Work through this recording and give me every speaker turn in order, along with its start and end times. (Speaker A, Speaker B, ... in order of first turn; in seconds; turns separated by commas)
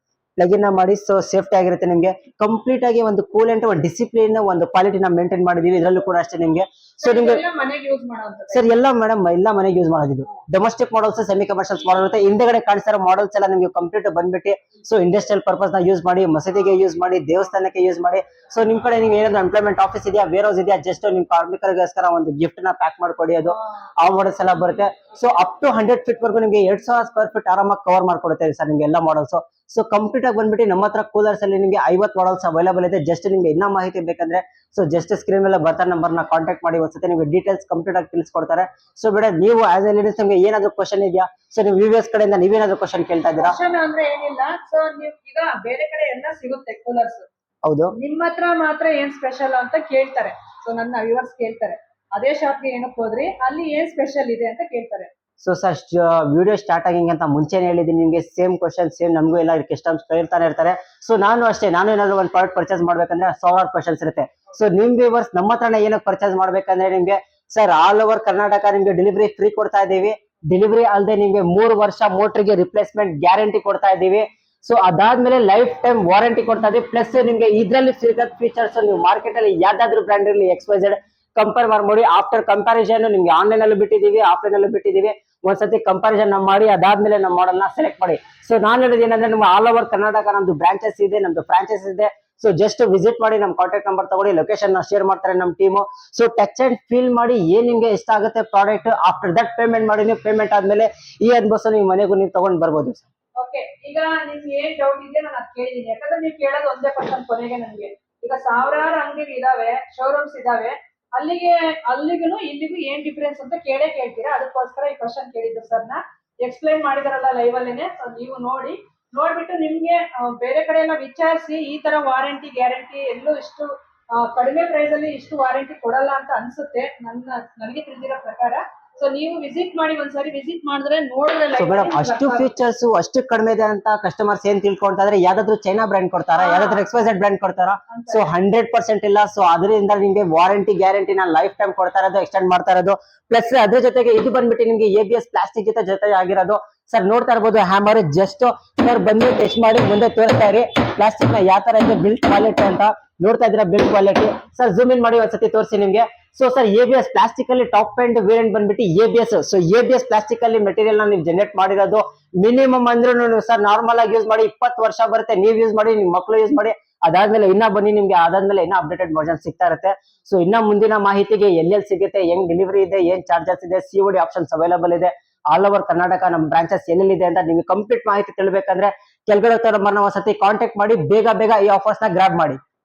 Speaker A: 0.4-7.4, Speaker B: 7.0-8.7, Speaker A: 8.5-43.5, Speaker B: 43.4-47.2, Speaker A: 47.6-47.9, Speaker B: 47.9-55.1, Speaker A: 55.4-103.1, Speaker B: 103.4-132.5, Speaker A: 131.6-182.6, Speaker B: 136.4-136.8, Speaker B: 137.9-138.3